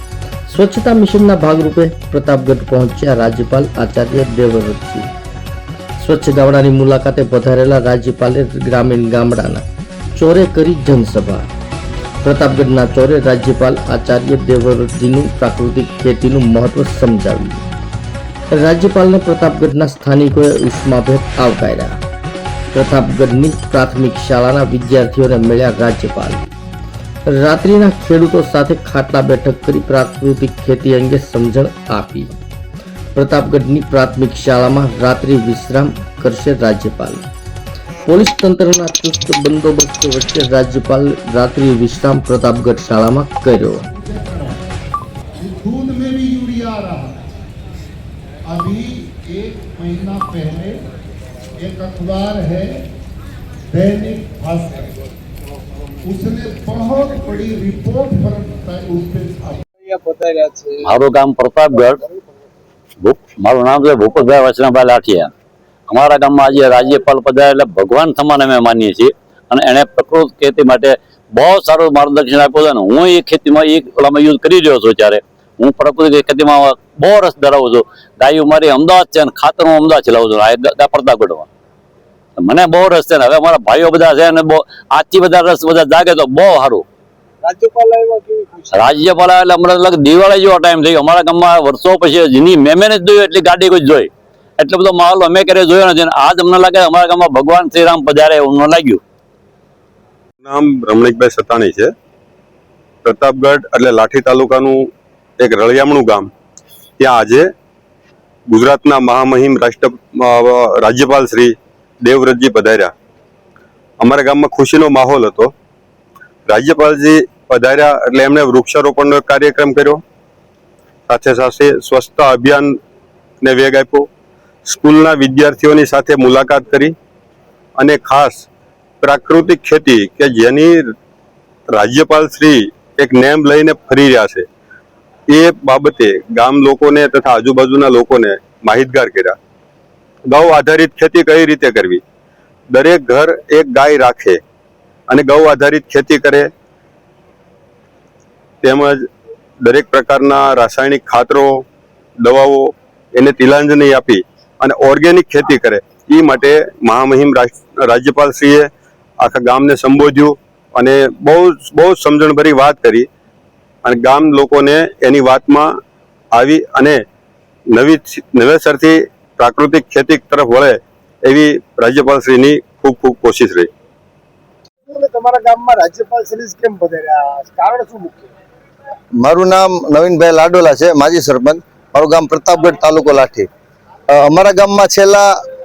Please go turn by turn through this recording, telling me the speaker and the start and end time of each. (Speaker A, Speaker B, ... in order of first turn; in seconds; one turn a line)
Speaker A: 0.5-5.1
Speaker A: 6.0-9.7
Speaker A: 10.2-11.5
Speaker A: 12.2-17.6
Speaker A: 18.5-22.0
Speaker A: 22.7-26.4
Speaker A: 27.3-32.3
Speaker A: 33.1-37.2
Speaker A: 38.1-43.9
Speaker B: 43.9-44.6
Speaker B: 45.4-47.3
Speaker B: 48.5-50.8
Speaker B: 51.6-52.9
Speaker B: 53.7-54.9
Speaker B: 56.0-59.7
Speaker C: 59.8-60.9
Speaker D: 60.8-62.0
Speaker D: 63.0-65.3
Speaker D: 65.9-81.5
Speaker D: 82.4-86.8
Speaker C: 87.4-89.0
Speaker D: 88.7-99.0
Speaker E: 100.4-101.9
Speaker E: 103.0-106.3
Speaker E: 107.0-107.5
Speaker E: 108.5-112.9
Speaker E: 114.0-115.5
Speaker E: 116.5-120.0
Speaker E: 121.1-122.8
Speaker E: 123.4-124.1
Speaker E: 124.7-127.0
Speaker E: 127.8-128.5
Speaker E: 129.0-130.8
Speaker E: 131.7-134.5
Speaker E: 135.3-139.4
Speaker E: 140.3-142.0
Speaker E: 142.7-144.4
Speaker E: 145.1-146.5
Speaker E: 148.6-149.1
Speaker E: 149.6-151.7
Speaker E: 152.2-163.1
Speaker E: 163.8-165.7
Speaker E: 166.3-167.0
Speaker E: 167.7-173.7
Speaker C: 174.8-178.3
Speaker F: 179.2-183.5
Speaker F: 184.1-185.4